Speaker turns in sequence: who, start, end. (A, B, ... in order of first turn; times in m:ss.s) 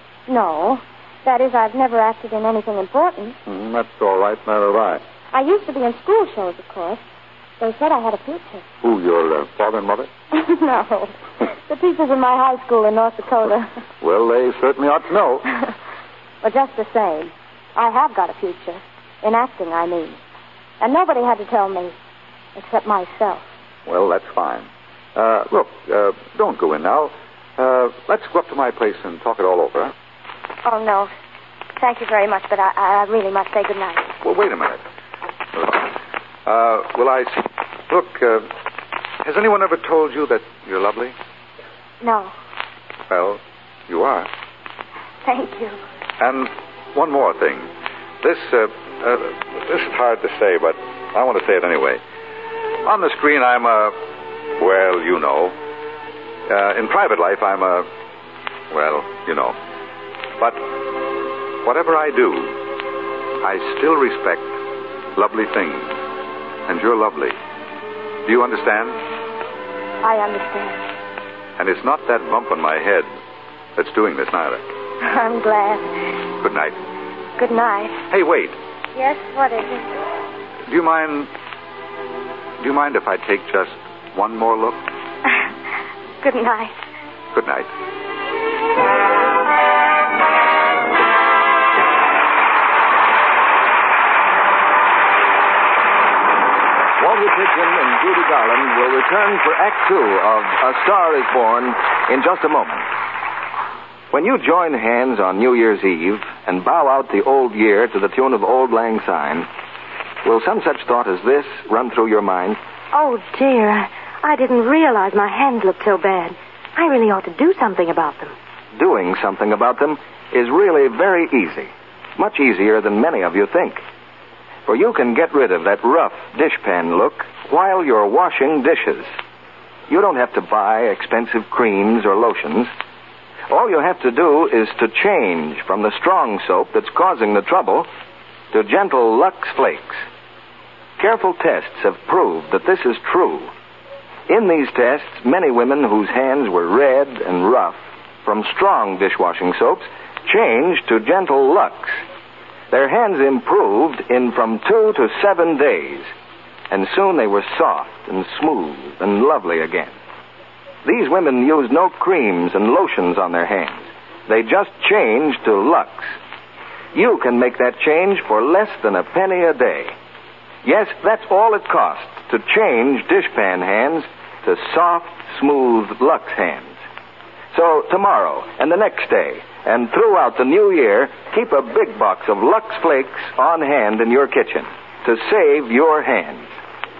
0:00.3-0:03.4 A
0:03.4-0:05.0 B
0:05.3-0:07.0 A
0:07.6-0:08.6 A
0:08.8-0:10.1 B
0:10.3-0:11.1 A
0:11.7-0:13.7 A
0:14.0-0:15.4 B
0:16.4-0:20.2 A
0:20.8-0:21.9 A
0:22.6-0:23.4 A
0:23.8-0:29.9 B
0:30.6-0:31.1 A
0:31.8-0:34.1 A
0:34.2-0:34.8 B
0:35.5-0:35.9 B
0:36.4-0:38.5 B
0:39.2-0:41.1 B
0:42.0-0:42.3 A
0:43.1-0:44.3 B
0:45.2-0:45.8 A
0:46.2-0:47.7 B
0:48.2-0:52.0 B
0:52.8-0:53.9 B
0:54.6-0:55.5 B
0:56.5-0:57.9 B
0:58.7-0:59.6 B
1:00.4-1:00.6 B
1:01.6-1:02.5 B
1:03.4-1:04.5 B
1:05.1-1:06.0 B
1:06.7-1:07.4 B
1:08.2-1:09.0 B
1:10.0-1:10.8 A
1:11.6-1:13.1 B
1:13.8-1:14.6 B
1:15.0-1:15.9 A
1:16.4-1:16.8 B
1:17.4-1:18.0 A
1:18.1-1:18.6 B
1:18.9-1:19.9 A
1:20.7-1:21.3 B
1:22.6-1:24.8 B
1:26.2-1:26.8 A
1:27.3-1:27.7 B
1:37.0-1:42.9 C
1:44.1-1:49.5 C
1:50.2-1:52.6 C
1:52.9-1:58.3 D
1:58.8-2:03.8 C
2:04.6-2:09.1 C
2:09.9-2:12.7 C
2:13.5-2:17.9 C
2:18.5-2:20.0 C
2:21.0-2:23.5 C
2:24.3-2:32.0 C
2:32.7-2:36.1 C
2:36.7-2:39.9 C
2:40.8-2:46.1 C
2:46.9-2:49.9 C
2:50.6-2:56.7 C
2:57.5-3:06.5 C